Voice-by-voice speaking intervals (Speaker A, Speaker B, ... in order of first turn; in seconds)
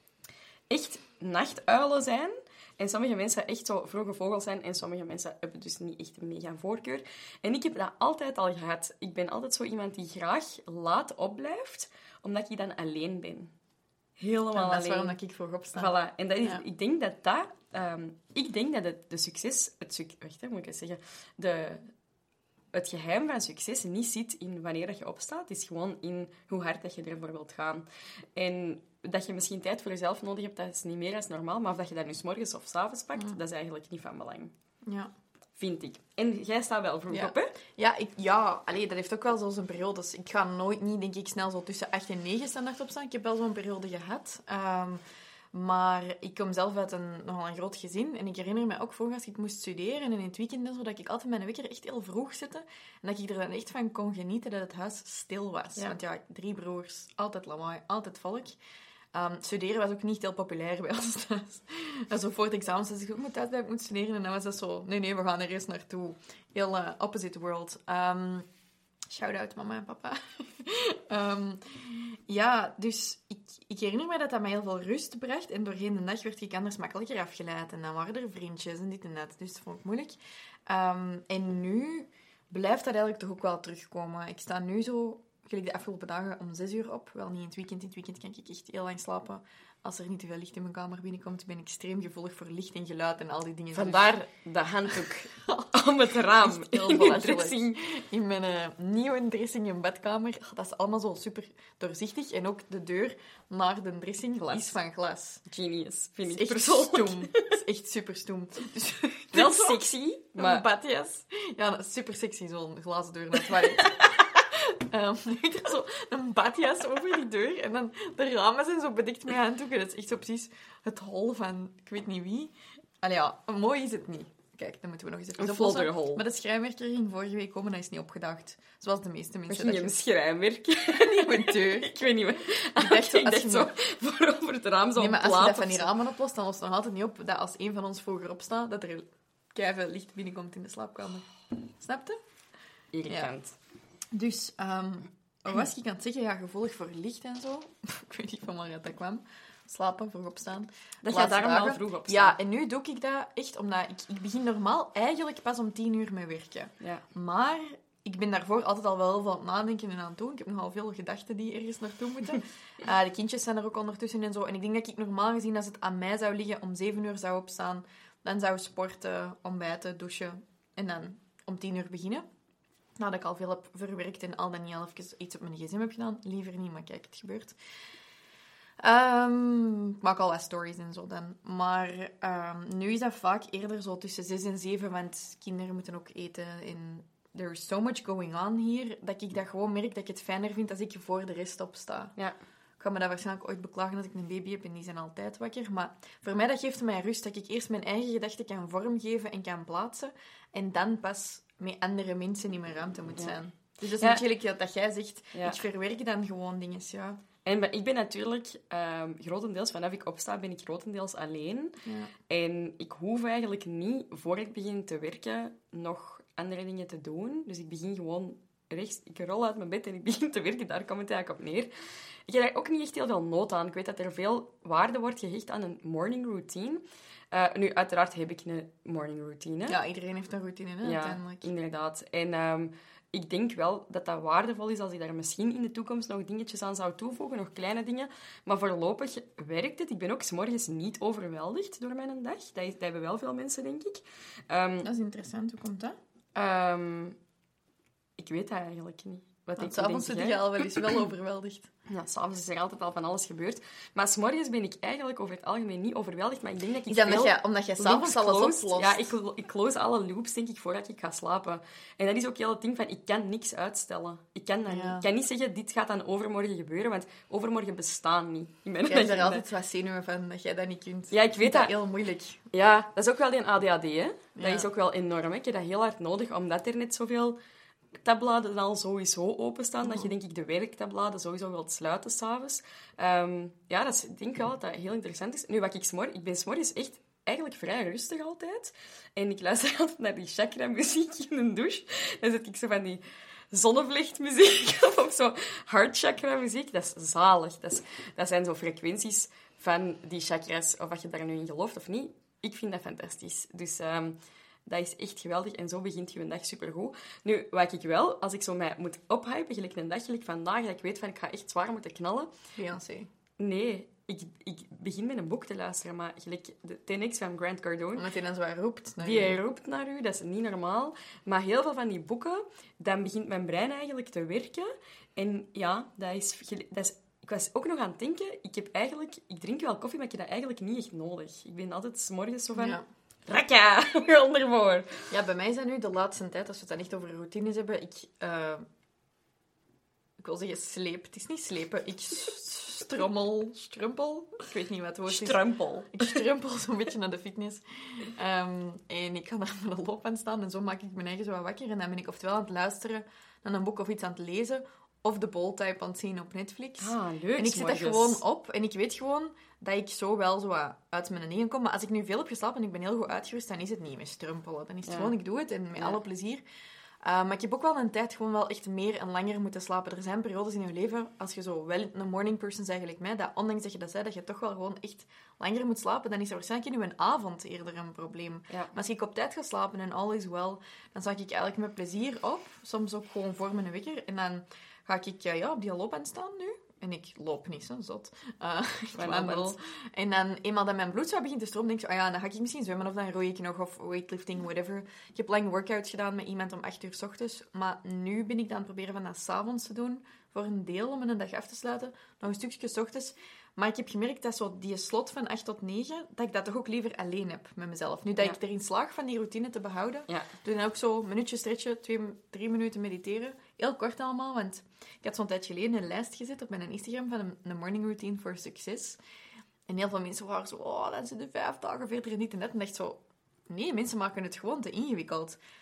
Speaker A: 0.7-13.5, 14.2-15.2, 15.8-21.9, 22.7-27.9, 28.4-34.5, 35.6-37.5, 93.7-97.8, 105.5-107.6, 109.3-110.7, 125.4-126.2, 129.5-135.9, 142.9-143.6, 151.0-152.4, 204.0-204.2, 205.3-205.6, 207.4-221.7, 222.3-229.8, 230.8-244.9, 246.3-247.2, 248.2-250.5, 251.9-269.4, 271.1-271.7, 272.5-277.4, 278.1-293.0, 293.5-312.3, 313.4-318.1, 319.0-335.1, 345.1-346.2, 356.8-358.2, 364.9-365.1, 388.9-389.6
Speaker B: 14.5-16.6, 34.9-35.1, 37.1-45.0, 45.5-58.6, 59.1-68.5, 69.1-94.2, 95.5-105.4, 106.3-130.0, 130.9-133.7, 135.0-141.3, 141.8-142.2, 144.1-172.2, 173.0-177.6, 178.8-192.1, 192.8-207.2, 211.8-212.1, 229.7-231.5, 244.8-246.0, 249.6-251.7, 256.9-259.1, 264.7-265.1, 268.9-272.5, 274.4-274.7, 279.9-280.1, 312.6-313.1, 318.0-319.4, 332.5-332.9, 335.1-338.6, 340.2-366.4, 367.0-419.0, 419.7-425.4